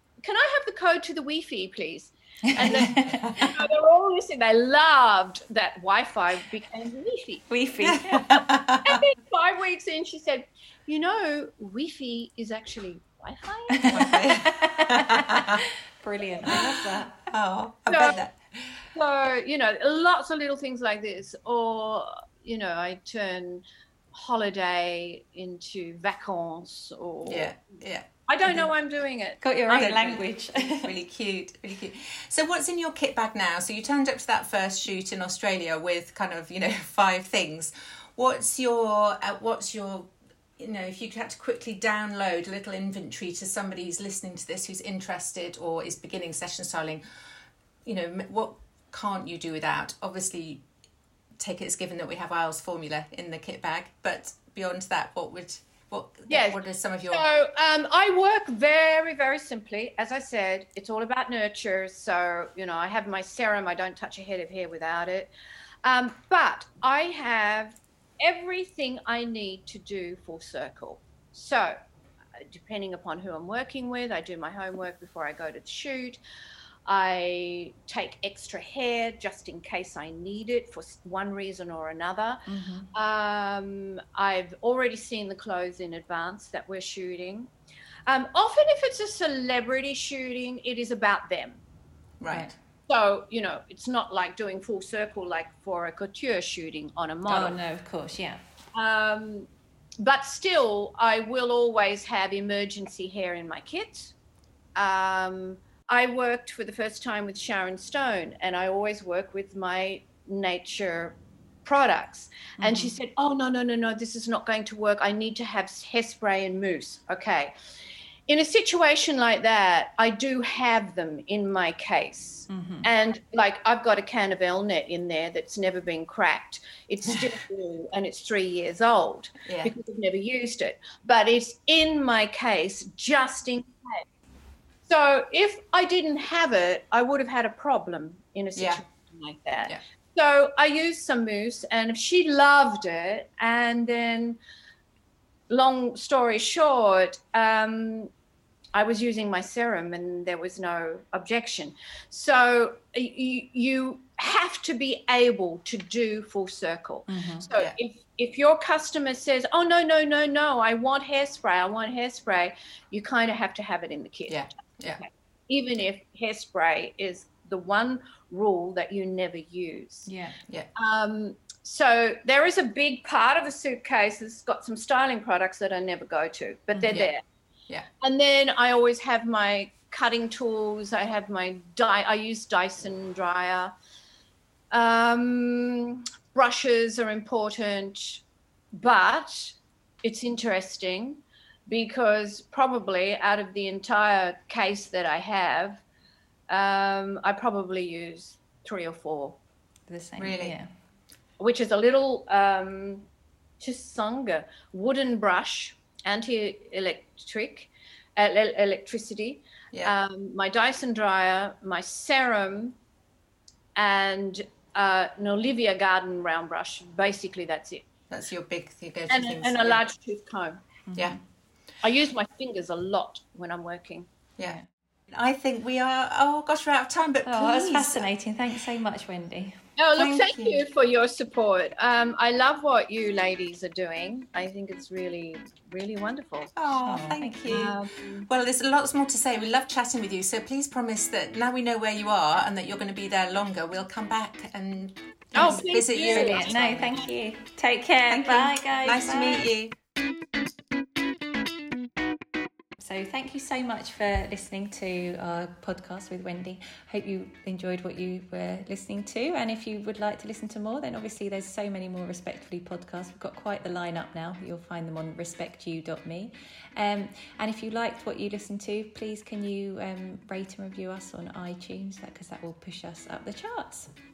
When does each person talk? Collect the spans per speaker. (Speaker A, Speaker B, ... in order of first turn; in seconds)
Speaker A: 0.2-7.5, 8.8-14.1, 17.9-18.2, 18.9-27.6, 28.3-30.0, 56.3-56.6, 57.1-65.3, 65.8-71.8, 72.4-76.2, 76.8-87.5, 88.1-91.6, 92.9-97.6, 98.7-99.5, 100.0-104.1, 104.8-117.5, 118.3-134.0, 134.9-144.4, 145.5-148.1, 148.7-164.4, 165.0-170.1, 170.7-177.2, 178.0-183.7, 184.7-188.2, 188.7-195.8, 196.5-199.4, 201.4-203.1, 203.6-212.8, 213.8-217.8, 219.1-220.6, 221.8-224.1, 229.8-236.5, 237.5-238.3, 245.3-246.8
Speaker B: 2.5-3.5, 7.5-8.3, 13.7-17.2, 29.4-30.9, 82.5-82.9, 97.3-98.4, 112.6-112.9, 122.5-122.9, 157.1-157.5, 170.1-170.4, 176.7-177.1, 199.9-200.7, 220.9-221.2, 227.2-229.6, 236.8-237.7, 246.1-249.5, 252.8-273.9
Speaker C: 2.6-3.5, 7.8-9.0, 13.9-15.6, 17.3-18.8, 27.2-28.1, 29.7-47.0, 47.8-50.6, 51.4-57.2, 92.2-92.5, 129.4-129.7, 138.5-138.8, 164.3-165.0, 200.2-200.5, 218.1-219.8, 224.4-228.1, 230.0-230.6, 236.6-247.0, 248.1-249.8